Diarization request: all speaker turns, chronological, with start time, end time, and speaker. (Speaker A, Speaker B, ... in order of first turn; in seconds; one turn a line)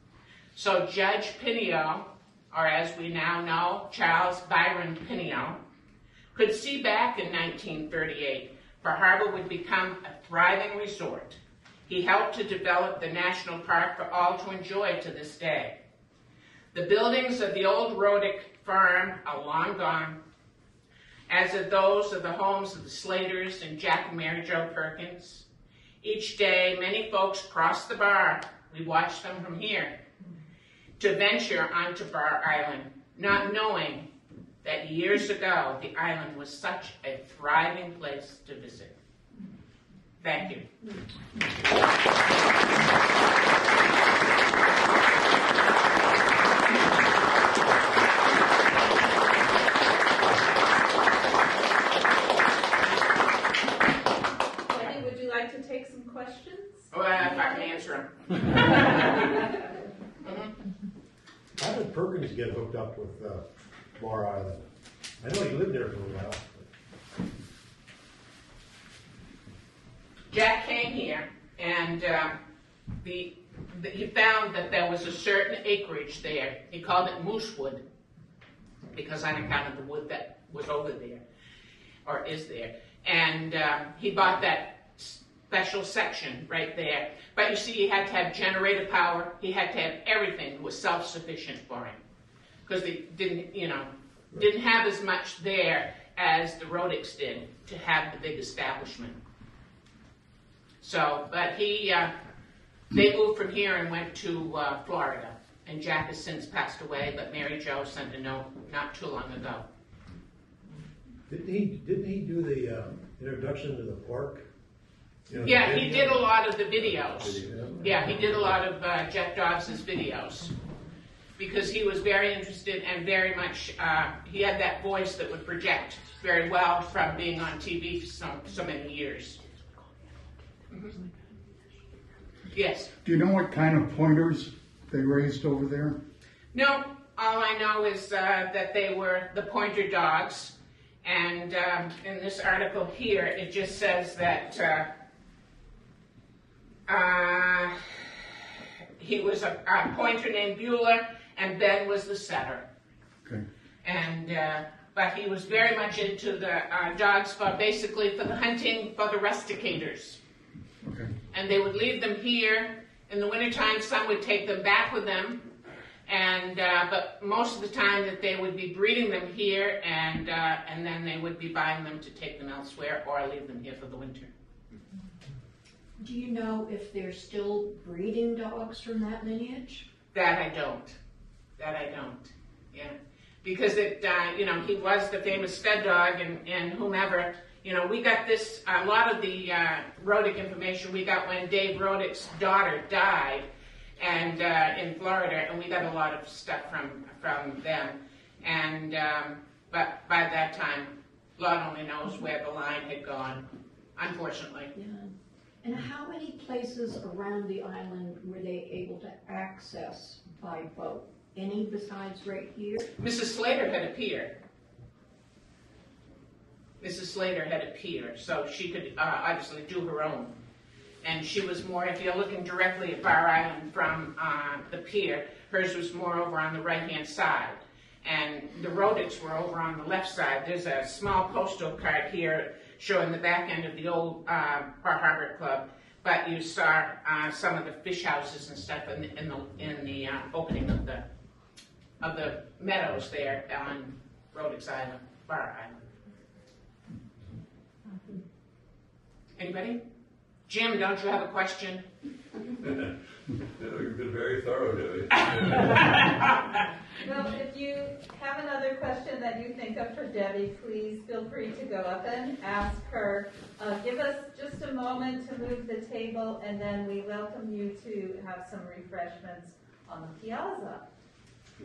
Speaker A: 0.5-5.6
Speaker A: 6.3-15.8
Speaker A: 16.7-20.2
Speaker A: 21.3-25.4
Speaker A: 26.0-29.9
Speaker A: 31.0-34.1
Speaker A: 34.6-39.0
Speaker A: 40.2-40.7
Speaker B: 54.7-57.5
Speaker A: 56.9-59.5
Speaker A: 60.2-60.5
Speaker C: 61.6-64.6
Speaker C: 65.2-66.7
Speaker A: 70.3-72.4
Speaker A: 73.0-77.8
Speaker A: 78.9-81.2
Speaker A: 82.0-92.0
Speaker A: 92.7-99.2
Speaker A: 100.8-102.1
Speaker A: 102.9-109.6
Speaker C: 111.3-114.5
Speaker C: 115.3-116.2
Speaker A: 115.4-120.5
Speaker C: 117.2-117.9
Speaker A: 121.4-129.4
Speaker A: 130.7-131.0
Speaker A: 132.5-132.9
Speaker D: 133.0-136.0
Speaker A: 136.5-144.9
Speaker A: 146.9-148.2
Speaker A: 149.0-152.7
Speaker A: 153.8-160.2
Speaker D: 160.8-161.1
Speaker A: 161.3-165.5
Speaker A: 166.1-174.3
Speaker E: 176.0-179.8
Speaker A: 180.1-180.9
Speaker A: 181.6-193.4
Speaker A: 194.0-204.7
Speaker E: 204.8-205.1
Speaker E: 205.6-212.8
Speaker A: 213.0-214.3
Speaker A: 216.8-220.3
Speaker A: 221.0-241.0
Speaker A: 242.0-245.8
Speaker A: 249.3-249.8
Speaker A: 250.5-251.8
Speaker F: 252.6-252.9
Speaker F: 253.6-255.9
Speaker A: 255.7-256.2
Speaker B: 257.0-270.9